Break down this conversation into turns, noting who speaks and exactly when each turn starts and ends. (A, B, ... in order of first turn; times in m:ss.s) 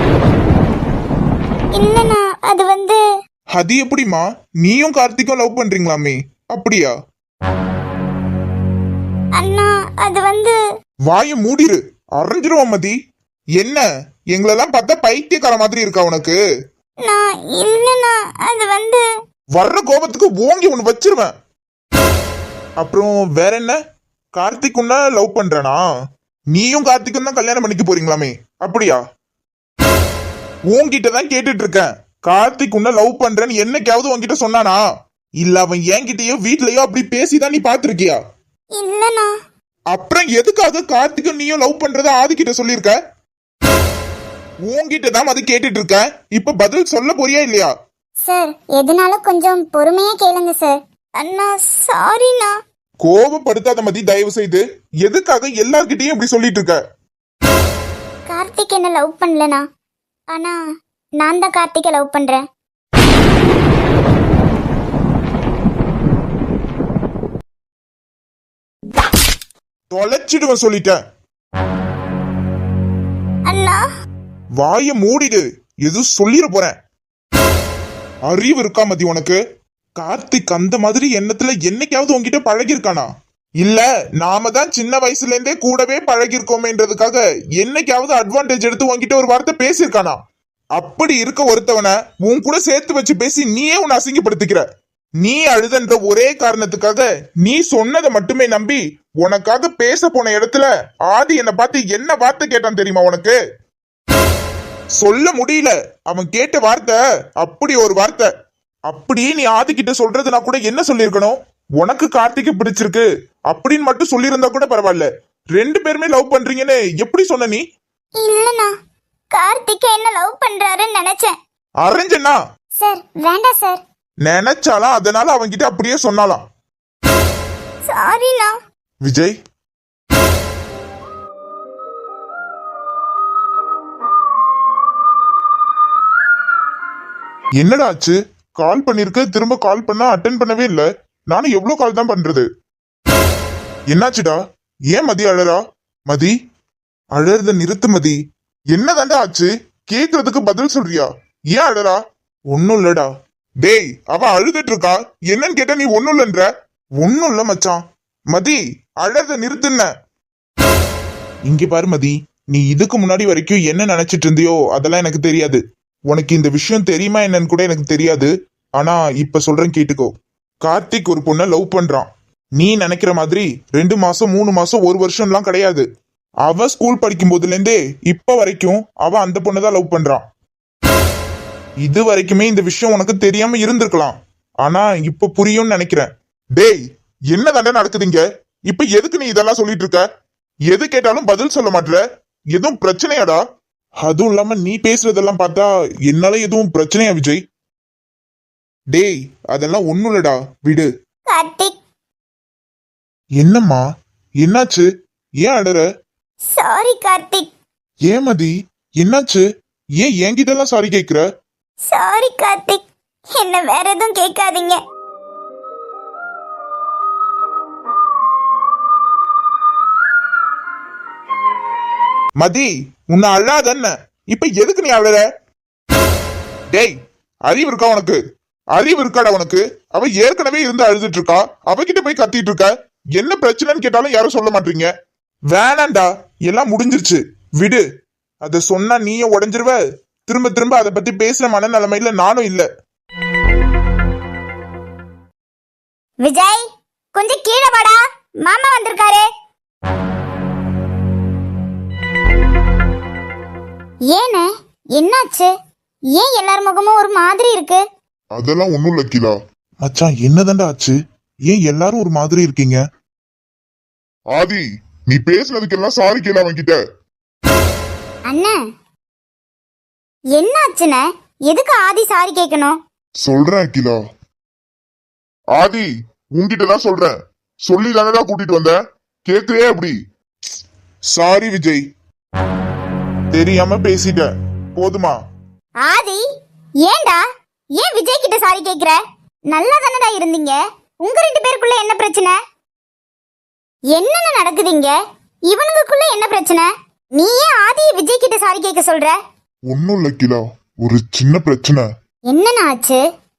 0:01.7-0:03.0 A
0:03.6-0:06.9 B
0:09.4-0:10.6 A
0:11.1-0:13.0 B
0:13.6-0:16.4 B
0:17.0-0:19.0 A
0:19.6-0:21.3 B
0:22.8-0:23.8 B
0:24.4-0:25.8 B
0:26.5-0:29.0 B
0:30.7-0:34.8 B
0:35.4-0:38.2 B
0:38.8-0:39.3 A
0:39.9-0:43.0 B
0:44.7-0:47.7 B
0:48.2-0:52.6 A
0:53.0-0:56.8 B
0:58.3-0:59.6 A
1:01.2-1:02.4 A
1:09.9-1:11.0 B
1:13.5-1:13.8 A
1:14.6-1:16.8 B
1:18.3-1:19.4 B
1:20.0-1:23.1 B
1:23.6-1:30.2 B
1:30.8-1:34.6 B
1:35.2-1:43.4 B
1:45.0-1:48.3 B
1:48.9-1:57.6 B
1:58.2-1:58.7 A
1:59.3-2:01.4 A
2:01.8-2:02.4 B
2:02.8-2:03.8 A
2:04.2-2:06.4 B
2:07.9-2:08.6 A
2:09.1-2:09.3 B
2:17.6-2:22.5 B
2:23.9-2:24.4 B
2:24.9-2:26.3 B
2:27.2-2:28.2 B
2:28.8-2:32.0 B
2:32.5-2:33.1 B
2:33.6-2:36.5 B
2:37.0-2:37.8 B
2:38.3-2:39.9 B
2:41.5-2:50.1 B
2:50.6-2:55.8 B
2:56.4-3:00.2 B
3:01.8-3:06.8 B
3:07.3-3:10.0 B
3:10.7-3:12.0 B
3:12.5-3:13.4 B
3:14.0-3:17.4 B
3:18.9-3:20.9 B
3:21.3-3:21.7 A
3:23.4-3:23.8 B
3:24.4-3:24.9 B
3:25.4-3:25.8 B
3:26.6-3:27.5 A
3:28.1-3:29.5 B
3:30.0-3:31.2 B
3:31.9-3:34.8 A
3:42.4-3:45.3 B
3:47.5-3:48.2 B
3:48.8-3:54.9 B
3:55.5-3:57.8 B
3:58.4-4:02.7 B
4:06.2-4:06.6 A
4:07.2-4:09.3 A
4:14.1-4:14.5 A
4:15.0-4:15.5 A
4:16.2-4:17.8 A
4:18.4-4:19.4 C
4:19.8-4:21.0 B
4:21.5-4:22.8 B
4:24.3-4:26.8 C
4:28.3-4:28.6 A
4:30.4-4:32.8 A
4:33.2-4:34.0 C
4:35.6-4:37.2 C
4:37.7-4:38.8 C
4:39.3-4:40.0 C
4:41.1-4:41.8 B
4:43.3-4:45.2 B
4:45.8-4:46.2 A
4:46.8-4:47.2 A
4:47.8-4:49.0 A
4:49.5-4:52.4 A
4:54.0-4:54.9 A
4:55.5-4:59.2 A
4:59.7-5:01.9 C
5:02.3-5:03.0 A